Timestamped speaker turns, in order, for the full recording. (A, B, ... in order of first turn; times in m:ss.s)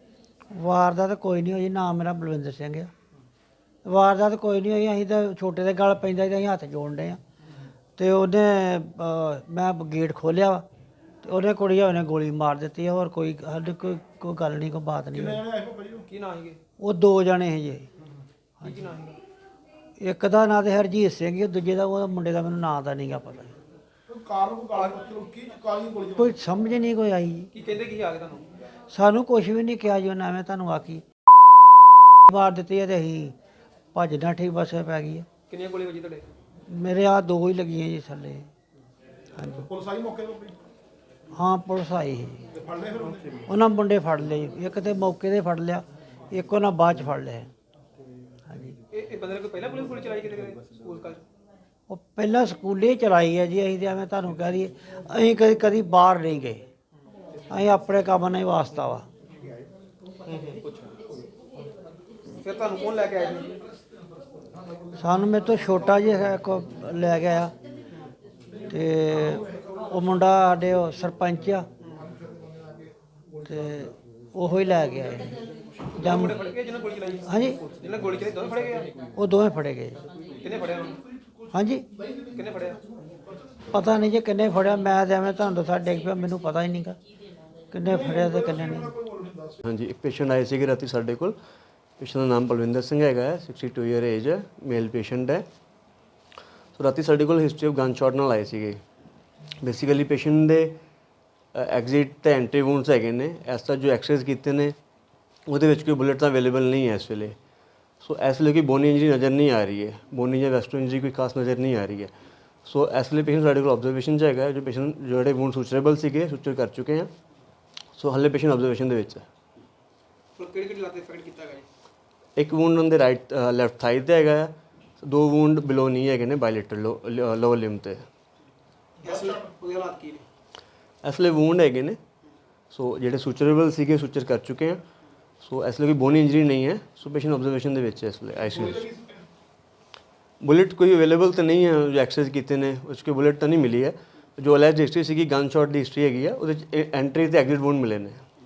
0:00.6-0:02.9 A
0:03.8-0:07.2 A
0:08.0-0:10.6 A
0:11.2-0:15.4 A
0:15.2-0:16.0 B
0:16.1-0:16.6 C
0:16.8-0:17.9 A
0:18.6-0:19.2 C
0:20.0-0:23.5 A
0:24.1-0:26.3 B
0:26.2-0:27.5 A
0:27.5-0:28.4 C
0:28.9-0:31.0 A
0:32.3-0:33.3 A
0:33.9-0:35.2 A
0:35.5-0:36.3 C
0:36.7-0:38.5 A
0:39.4-0:39.7 A
0:39.7-0:40.6 B
0:41.3-0:42.5 A
0:42.6-0:43.4 B
0:43.5-0:47.5 A
0:48.5-0:48.8 A
0:48.9-0:51.2 C
0:51.9-0:56.6 A
0:57.5-0:59.0 A
1:00.3-1:01.0 C
1:02.4-1:03.6 C
1:05.0-1:07.5 A
1:08.7-1:11.7 A
1:13.4-1:15.4 A
1:16.0-1:16.4 A
1:16.0-1:18.9 C
1:17.2-1:17.6 A
1:19.2-1:20.0 A
1:20.4-1:21.0 C
1:20.9-1:21.5 B
1:21.5-1:21.8 A
1:22.0-1:22.4 B
1:22.3-1:22.8 C
1:23.7-1:27.0 A
1:27.7-1:28.9 A
1:27.8-1:29.6 B
1:29.6-1:31.4 D
1:32.0-1:35.4 D
1:36.8-1:38.8 D
1:39.6-1:40.8 D
1:41.5-1:44.8 D
1:45.5-1:47.4 D
1:48.0-1:52.1 D
1:52.6-1:57.1 D
1:58.0-1:59.2 D
2:00.4-2:01.7 C
2:02.4-2:08.0 D
2:09.0-2:10.2 C
2:09.0-2:09.5 B
2:11.0-2:12.0 D
2:12.7-2:14.8 D
2:15.4-2:18.9 D
2:18.5-2:19.2 B
2:20.4-2:28.2 D